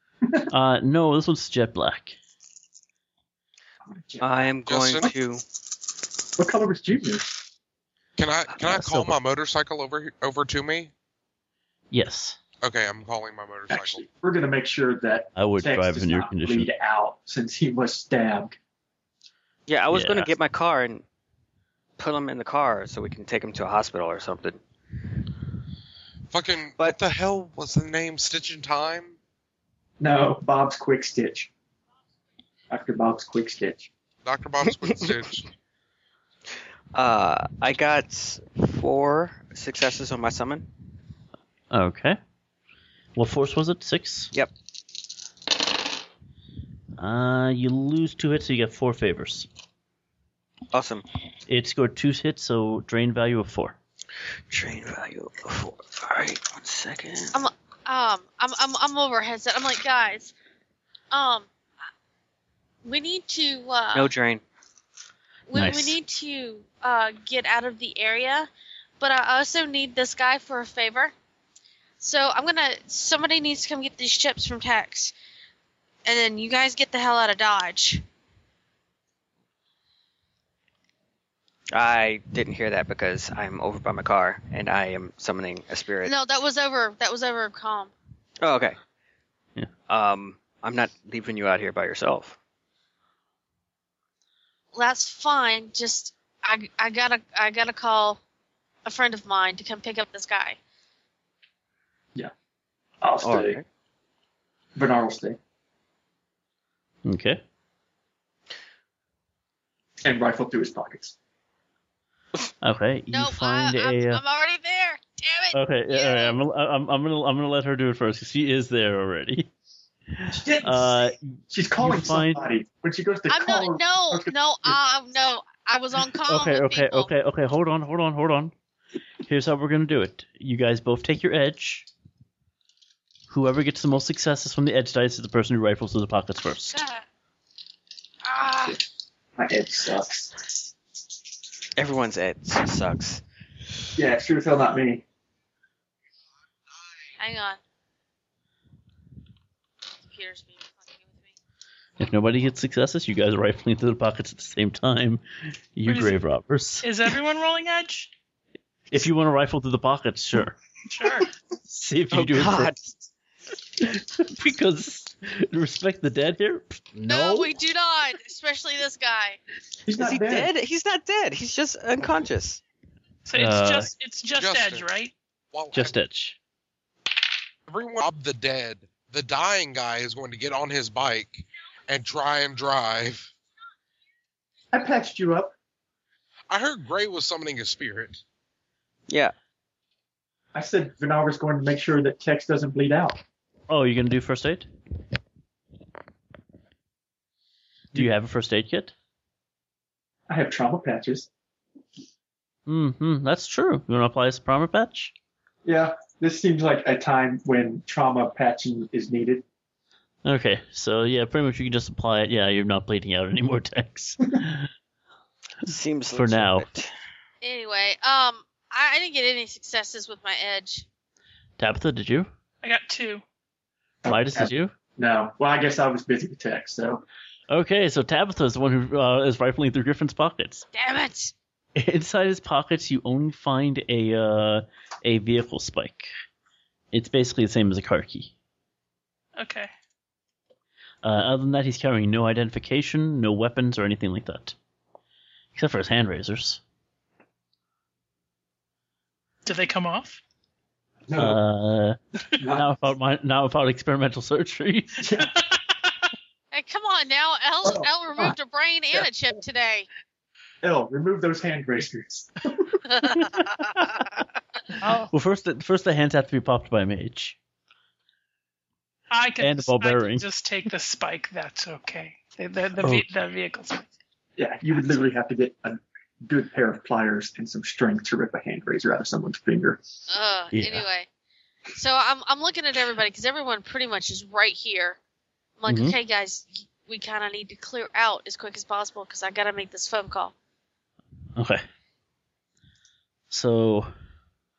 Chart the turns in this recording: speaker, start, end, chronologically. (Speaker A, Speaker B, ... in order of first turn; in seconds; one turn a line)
Speaker A: 0.5-2.2
Speaker B: 3.8-4.5
Speaker C: 4.2-5.4
Speaker D: 4.7-5.1
Speaker B: 6.4-7.3
Speaker D: 8.2-10.9
Speaker A: 8.6-9.1
Speaker A: 11.9-12.4
Speaker D: 12.6-14.0
Speaker B: 13.7-18.6
Speaker A: 15.3-16.7
Speaker C: 19.7-21.0
Speaker A: 19.9-20.3
Speaker C: 22.0-24.6
Speaker D: 26.3-29.1
Speaker B: 30.0-31.5
Speaker B: 32.7-33.9
Speaker D: 34.2-35.5
Speaker C: 34.8-35.1
Speaker C: 36.9-40.7
Speaker A: 41.7-42.2
Speaker A: 43.1-44.3
Speaker A: 47.0-49.5
Speaker C: 50.7-51.0
Speaker A: 51.5-53.8
Speaker C: 54.5-57.4
Speaker E: 57.3-60.3
Speaker E: 61.1-61.5
Speaker E: 62.8-64.1
Speaker C: 63.9-64.4
Speaker E: 65.5-71.1
Speaker A: 65.5-66.0
Speaker E: 72.0-75.1
Speaker E: 76.0-78.0
Speaker C: 81.7-86.1
Speaker E: 86.0-87.9
Speaker C: 88.4-88.8
Speaker C: 89.9-92.4
Speaker E: 94.7-98.2
Speaker E: 98.8-100.6
Speaker B: 103.0-103.6
Speaker C: 103.2-103.6
Speaker B: 104.7-105.4
Speaker A: 107.0-107.4
Speaker B: 110.0-111.1
Speaker A: 112.6-114.2
Speaker E: 113.1-116.4
Speaker A: 115.5-119.5
Speaker A: 120.1-122.4
Speaker B: 120.3-124.8
Speaker E: 123.3-127.1
Speaker A: 126.2-128.5
Speaker A: 129.2-131.9
Speaker A: 133.3-136.8
Speaker E: 136.7-137.0
Speaker E: 138.2-138.8
Speaker B: 139.4-140.3
Speaker C: 141.8-143.2
Speaker B: 143.9-145.0
Speaker E: 147.2-147.6
Speaker E: 150.0-151.3
Speaker A: 152.0-155.2
Speaker A: 155.7-156.9
Speaker F: 155.8-156.2
Speaker F: 156.8-158.1
Speaker A: 158.9-160.6
Speaker F: 160.9-161.3
Speaker A: 161.7-162.8
Speaker C: 162.1-162.9
Speaker A: 163.8-167.5
Speaker E: 167.1-169.4
Speaker B: 169.8-170.5
Speaker C: 169.9-172.6
Speaker F: 173.2-175.1
Speaker A: 173.3-173.9
Speaker D: 174.4-174.8
Speaker D: 175.5-175.9
Speaker A: 175.7-176.4
Speaker D: 177.7-183.3
Speaker B: 184.7-185.5
Speaker D: 186.5-188.2
Speaker C: 189.1-189.3
Speaker B: 190.5-193.2
Speaker A: 193.7-194.7
Speaker A: 197.9-198.9
Speaker B: 200.3-201.3
Speaker A: 202.7-205.1
Speaker B: 205.6-209.4
Speaker A: 210.2-214.7
Speaker C: 215.6-216.9
Speaker A: 216.1-216.6
Speaker E: 217.4-220.8
Speaker A: 221.6-222.3
Speaker F: 222.6-223.2
Speaker B: 224.0-227.0
Speaker A: 224.1-224.7
Speaker A: 227.5-230.7
Speaker E: 230.7-231.3
Speaker A: 231.8-236.1
Speaker A: 236.9-238.3
Speaker F: 239.3-239.7
Speaker A: 241.0-244.6
Speaker A: 245.5-246.6
Speaker F: 249.4-250.2
Speaker B: 251.1-251.4
Speaker A: 251.2-252.0
Speaker B: 252.4-252.7
Speaker A: 252.5-255.1
Speaker B: 255.0-255.3
Speaker E: 256.5-259.9
Speaker B: 257.6-258.3
Speaker B: 260.6-262.8
Speaker E: 262.9-263.4
Speaker A: 263.8-264.0
Speaker F: 264.8-265.1
Speaker A: 265.1-267.4
Speaker F: 269.1-273.9
Speaker A: 269.4-270.3
Speaker A: 272.8-273.1
Speaker B: 274.4-279.8
Speaker E: 280.1-281.1
Speaker A: 280.5-280.9
Speaker E: 281.7-285.0
Speaker E: 285.6-290.3
Speaker A: 285.7-285.9
Speaker A: 291.4-291.6
Speaker A: 293.3-293.9